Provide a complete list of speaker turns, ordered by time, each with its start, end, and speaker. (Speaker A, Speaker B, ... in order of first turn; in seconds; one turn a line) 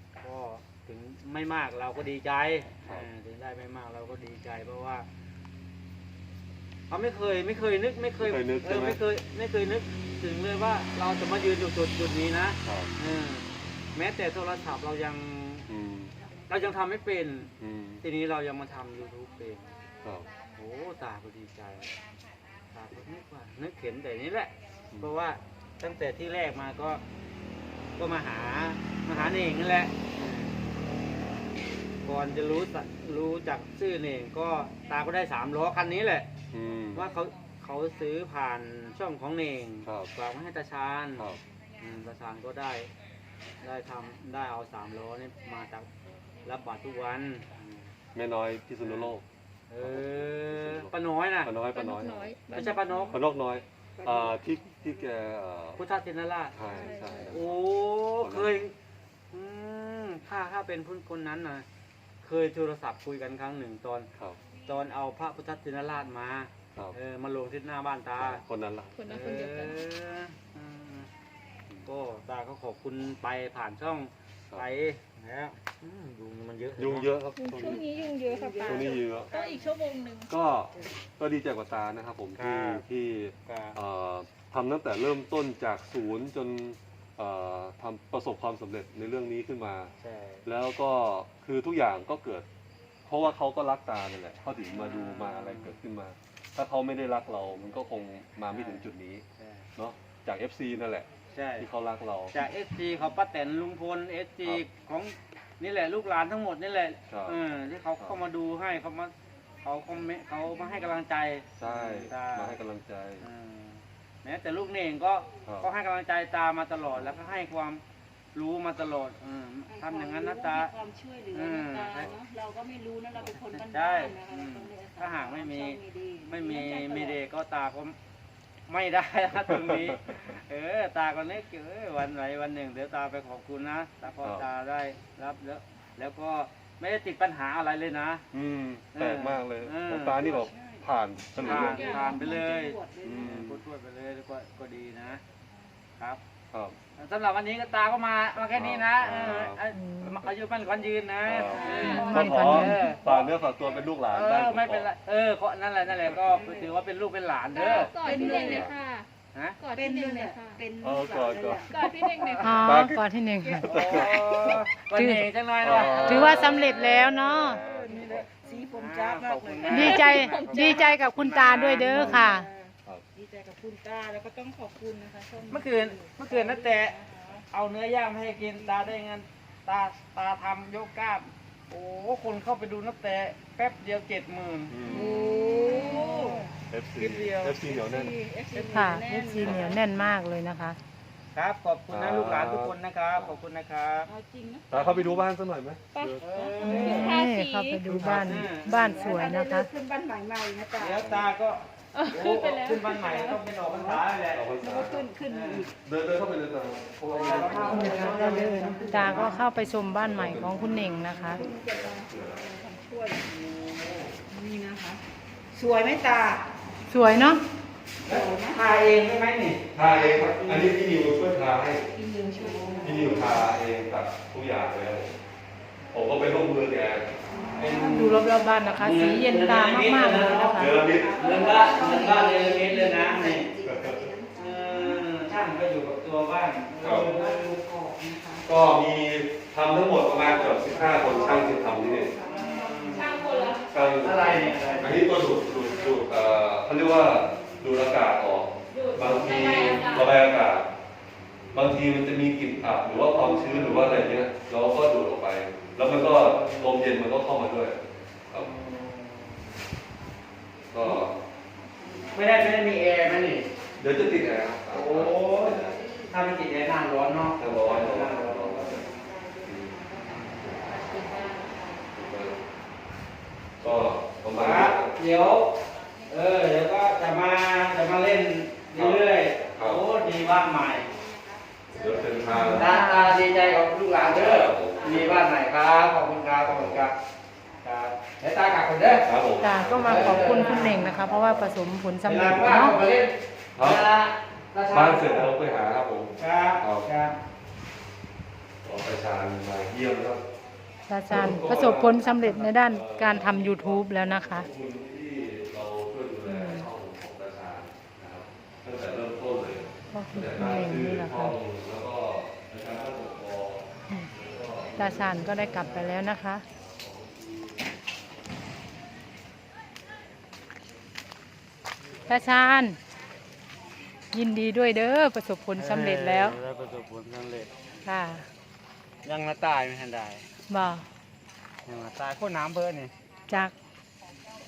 Speaker A: 0.2-5.1
Speaker A: 6.9-15.7
Speaker B: 8.2-9.0
Speaker B: 12.6-12.9
Speaker B: 15.7-16.1
Speaker A: 16.5-19.7
Speaker B: 17.6-18.0
Speaker B: 20.0-20.3
Speaker A: 20.6-21.9
Speaker A: 22.7-27.0
Speaker A: 28.0-30.6
Speaker A: 32.0-36.3
Speaker B: 36.5-37.1
Speaker A: 36.9-42.9
Speaker B: 39.9-40.1
Speaker A: 43.6-45.9
Speaker A: 46.4-47.8
Speaker B: 48.1-49.2
Speaker A: 48.8-49.1
Speaker A: 49.7-51.5
Speaker B: 49.8-50.9
Speaker B: 51.4-55.8
Speaker C: 51.7-53.1
Speaker A: 52.5-53.2
Speaker D: 54.0-54.4
Speaker A: 55.8-56.6
Speaker B: 56.5-57.6
Speaker D: 56.6-57.4
Speaker A: 57.1-58.7
Speaker B: 58.2-58.6
Speaker A: 59.3-61.7
Speaker A: 62.2-64.1
Speaker A: 64.7-68.4
Speaker B: 68.2-69.2
Speaker C: 69.0-69.8
Speaker A: 69.0-71.1
Speaker A: 71.8-77.2
Speaker B: 76.8-78.1
Speaker C: 77.4-80.3
Speaker D: 78.2-79.7
Speaker B: 78.6-79.3
Speaker B: 80.3-89.9
Speaker A: 82.4-82.8
Speaker A: 83.5-83.8
Speaker A: 90.0-90.5
Speaker B: 90.5-92.5
Speaker B: 93.1-99.2
Speaker A: 94.7-95.8
Speaker A: 98.5-99.7
Speaker B: 99.8-101.1
Speaker A: 101.3-101.7
Speaker B: 101.6-102.3
Speaker A: 102.3-112.6
Speaker B: 107.1-107.4
Speaker B: 111.6-113.3
Speaker A: 113.2-117.8
Speaker A: 118.3-120.7
Speaker D: 119.7-127.2
Speaker A: 121.3-122.1
Speaker B: 121.9-122.2
Speaker A: 123.2-128.0
Speaker A: 128.7-138.2
Speaker B: 129.5-130.2
Speaker B: 138.3-142.1
Speaker A: 138.9-140.3
Speaker D: 140.2-140.8
Speaker D: 141.4-143.4
Speaker A: 141.4-145.2
Speaker C: 141.4-141.8
Speaker B: 143.0-143.6
Speaker A: 147.0-153.3
Speaker B: 148.5-149.6
Speaker E: 149.8-150.2
Speaker B: 151.3-154.9
Speaker D: 151.5-152.4
Speaker C: 151.6-152.0
Speaker E: 151.8-152.8
Speaker A: 154.1-158.7
Speaker B: 156.1-156.3
Speaker D: 156.3-156.6
Speaker C: 157.5-159.1
Speaker B: 157.7-158.8
Speaker D: 157.9-158.6
Speaker A: 159.3-159.6
Speaker C: 159.6-160.6
Speaker D: 159.7-162.6
Speaker B: 160.8-161.7
Speaker C: 161.7-162.4
Speaker A: 161.8-162.8
Speaker E: 162.3-163.7
Speaker B: 162.6-163.0
Speaker D: 163.5-164.1
Speaker A: 163.6-172.3
Speaker B: 163.6-164.6
Speaker E: 164.9-165.3
Speaker B: 165.6-167.0
Speaker D: 165.8-166.0
Speaker E: 166.0-167.6
Speaker D: 167.4-177.4
Speaker B: 167.6-168.3
Speaker C: 169.6-170.7
Speaker E: 169.7-172.5
Speaker B: 172.0-172.2
Speaker A: 175.5-177.0
Speaker A: 177.5-187.6
Speaker D: 178.4-178.9
Speaker B: 184.7-185.2
Speaker D: 184.8-186.5
Speaker C: 185.7-186.2
Speaker B: 186.7-188.1
Speaker D: 187.7-189.8
Speaker A: 188.5-189.0
Speaker E: 188.7-190.8
Speaker B: 189.4-189.8
Speaker A: 191.3-194.1
Speaker B: 191.9-193.4
Speaker D: 194.1-195.3
Speaker B: 194.7-196.2
Speaker D: 196.0-197.3
Speaker A: 196.2-197.3
Speaker E: 196.6-199.7
Speaker C: 196.8-197.8
Speaker A: 197.9-199.3
Speaker D: 198.4-201.2
Speaker A: 200.8-204.5
Speaker C: 201.9-202.8
Speaker D: 202.1-204.0
Speaker B: 204.3-205.1
Speaker D: 204.6-205.8
Speaker A: 205.3-205.7
Speaker B: 205.8-208.2
Speaker D: 207.1-209.4
Speaker A: 207.1-209.4
Speaker E: 207.7-211.5
Speaker B: 210.0-212.5
Speaker D: 211.0-213.2
Speaker A: 213.2-214.2
Speaker D: 214.3-215.0
Speaker D: 215.5-216.4
Speaker E: 216.9-217.4
Speaker D: 218.0-218.6
Speaker A: 218.1-220.7
Speaker B: 219.7-221.9
Speaker D: 221.9-223.5
Speaker C: 222.3-223.4
Speaker B: 222.8-225.2
Speaker B: 225.9-227.1
Speaker D: 227.3-228.6
Speaker A: 227.6-228.2
Speaker E: 227.7-230.8
Speaker A: 228.8-233.5
Speaker D: 230.4-235.1
Speaker B: 230.6-231.2
Speaker B: 233.6-234.1
Speaker A: 234.3-238.4
Speaker B: 236.8-237.1
Speaker D: 236.9-237.6
Speaker B: 238.4-242.2
Speaker D: 240.2-243.6
Speaker A: 242.2-245.1
Speaker C: 242.9-243.6
Speaker B: 243.7-250.7
Speaker D: 244.6-246.1
Speaker C: 248.7-250.2
Speaker D: 249.3-249.7
Speaker B: 251.5-258.6
Speaker A: 252.9-254.2
Speaker A: 255.8-256.8
Speaker A: 258.3-259.4
Speaker B: 260.7-261.1
Speaker D: 261.9-262.1
Speaker A: 262.1-263.5
Speaker B: 263.8-265.8
Speaker A: 264.7-269.1
Speaker D: 265.4-266.2
Speaker B: 267.4-268.8
Speaker D: 268.3-271.9
Speaker B: 269.4-270.6
Speaker A: 270.0-270.6
Speaker C: 270.9-271.5
Speaker B: 271.9-272.4
Speaker B: 273.6-275.0
Speaker A: 274.4-275.5
Speaker A: 276.1-280.9
Speaker B: 278.7-279.0
Speaker B: 279.6-279.8
Speaker D: 280.6-282.5
Speaker B: 281.7-282.7
Speaker E: 282.3-283.2
Speaker A: 282.3-287.0
Speaker B: 284.1-285.2
Speaker B: 286.4-286.9
Speaker A: 287.6-289.1
Speaker B: 289.0-290.5
Speaker E: 289.4-292.8
Speaker A: 289.7-291.3
Speaker D: 290.1-291.3
Speaker A: 292.1-295.3
Speaker B: 293.6-293.9
Speaker B: 294.7-296.9
Speaker A: 296.2-297.1
Speaker B: 298.6-300.2
Speaker E: 300.9-304.5
Speaker B: 301.1-317.6
Speaker E: 306.2-306.7
Speaker E: 309.9-311.4
Speaker E: 314.8-316.4
Speaker E: 322.1-322.8
Speaker E: 324.1-326.4
Speaker A: 325.6-327.6
Speaker E: 327.9-328.3
Speaker A: 329.0-330.3
Speaker E: 330.5-330.9
Speaker A: 331.6-332.9
Speaker E: 333.3-333.5